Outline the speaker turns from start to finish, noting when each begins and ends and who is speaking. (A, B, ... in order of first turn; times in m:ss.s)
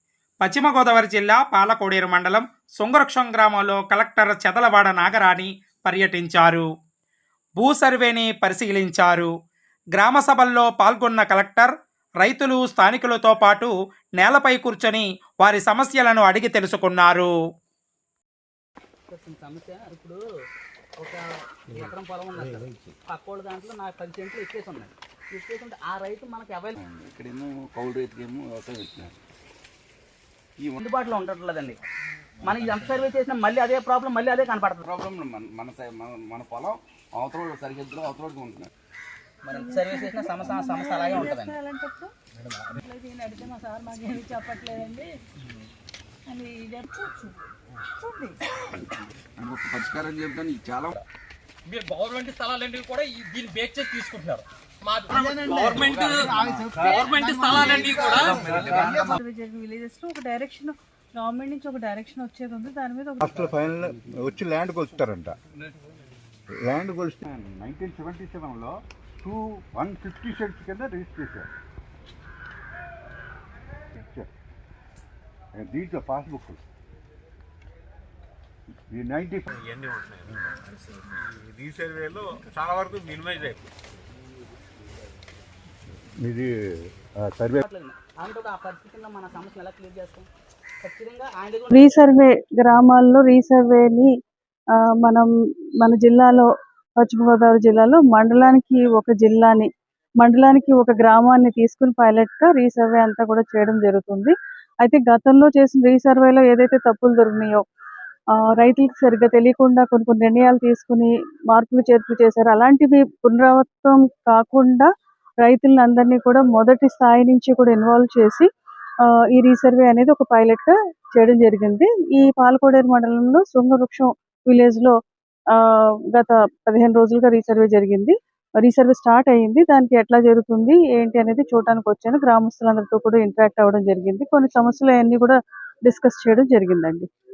0:00.4-0:06.7 A
0:07.6-0:09.3 A
0:09.9-0:17.3 A
0:19.1-0:20.2 B
0:21.0-0:26.8 B
0:26.9-0:29.2 C
0:30.8-0:31.8 B
0:32.4-0:34.9 B
0:34.8-0:38.7 C
0:39.4-0:41.6 B
0:39.5-0:42.1 D
0:43.2-0:44.6 D
0:46.3-0:47.3 D
0:48.0-0:48.4 D
0:49.4-0:51.0 C
0:51.7-0:59.1 E
0:58.5-0:58.8 C
0:59.0-1:03.4 D
1:03.2-1:05.4 F
1:06.7-1:11.5 F
1:13.9-1:14.3 F
1:15.6-1:16.6 F
1:18.9-1:19.5 F
1:19.6-1:23.6 G
1:26.2-1:26.5 F
1:27.2-1:27.6 F
1:27.6-1:30.3 B
1:30.8-1:31.8 B
1:31.7-1:34.1 D
1:34.8-1:35.3 D
1:35.8-1:36.5 D
1:37.0-1:39.7 D
1:40.2-1:47.6 D
1:48.4-1:54.9 D
1:55.4-1:58.5 D
1:59.0-2:04.9 D
2:05.5-2:17.1 D